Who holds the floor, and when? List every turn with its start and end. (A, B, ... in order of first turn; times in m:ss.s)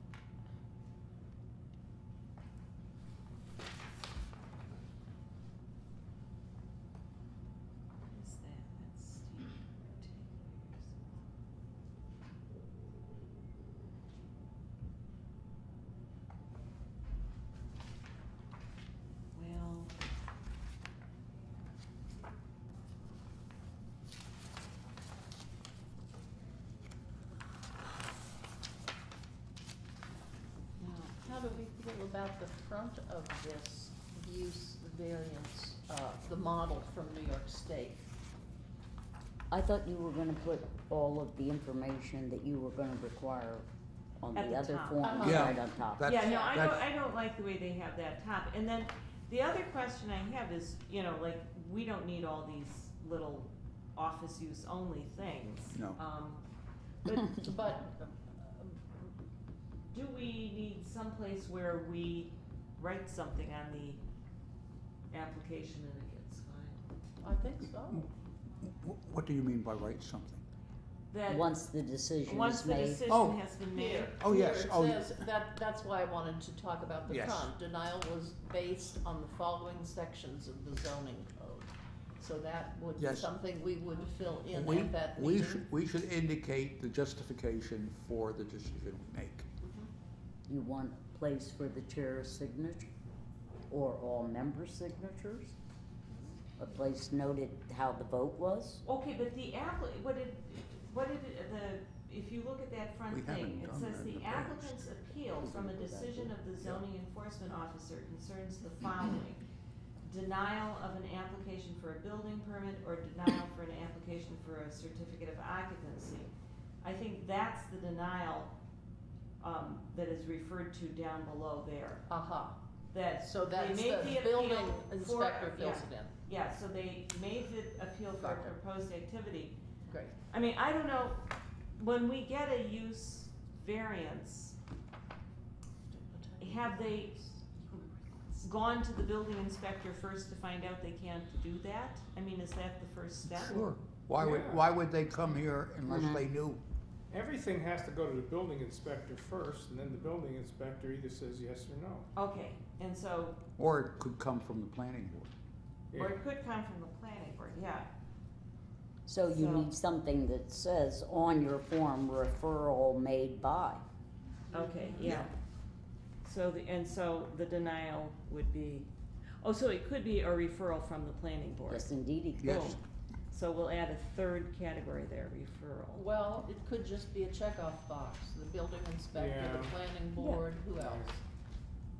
0:08.1-0:11.0 A
0:19.3-0:20.0 A
0:30.8-0:31.2 A
0:31.2-0:38.0 B
0:39.5-0:43.7 C
0:44.2-0:46.1 C
0:44.4-0:45.3 A
0:45.0-0:45.6 B
0:45.2-0:46.9 D
0:46.0-0:56.4 A
0:46.2-0:46.7 B
0:55.7-0:56.0 D
0:57.0-0:57.5 A
0:57.3-0:58.8 B
0:59.9-1:04.0 A
1:05.1-1:06.8 A
1:07.2-1:08.1 B
1:08.6-1:10.4 D
1:11.1-1:11.5 A
1:11.3-1:13.0 C
1:12.2-1:14.2 A
1:13.1-1:13.4 D
1:13.7-1:25.6 B
1:14.1-1:15.1 D
1:17.1-1:17.5 D
1:23.0-1:23.3 D
1:24.5-1:29.5 D
1:29.6-1:29.9 B
1:30.5-1:32.9 C
1:33.7-1:35.6 C
1:36.6-1:38.8 C
1:38.8-1:49.4 A
1:43.1-1:44.9 D
1:45.4-1:46.3 C
1:50.0-1:56.3 A
1:56.8-1:58.5 A
1:59.4-2:02.1 A
2:02.1-2:02.6 B
2:02.9-2:09.6 A
2:03.2-2:06.1 B
2:09.9-2:10.2 B
2:10.3-2:14.6 A
2:15.9-2:18.5 B
2:16.4-2:17.2 A
2:18.4-2:23.7 A
2:23.3-2:26.6 D
2:24.2-2:24.7 E
2:25.9-2:26.3 C
2:27.1-2:32.1 E
2:32.2-2:33.4 A
2:33.6-2:35.3 D
2:35.9-2:36.2 E
2:36.0-2:37.9 A
2:39.1-2:43.8 C
2:39.3-2:39.7 A
2:44.5-2:45.2 B
2:44.5-2:45.3 A
2:45.0-2:45.3 D
2:46.2-2:48.9 A
2:49.4-2:51.9 A
2:51.7-2:52.8 C
2:52.4-2:52.8 D
2:52.4-2:52.8 A
2:53.3-2:56.0 A
2:55.9-3:01.2 B
2:59.1-2:59.8 E
3:00.8-3:01.1 E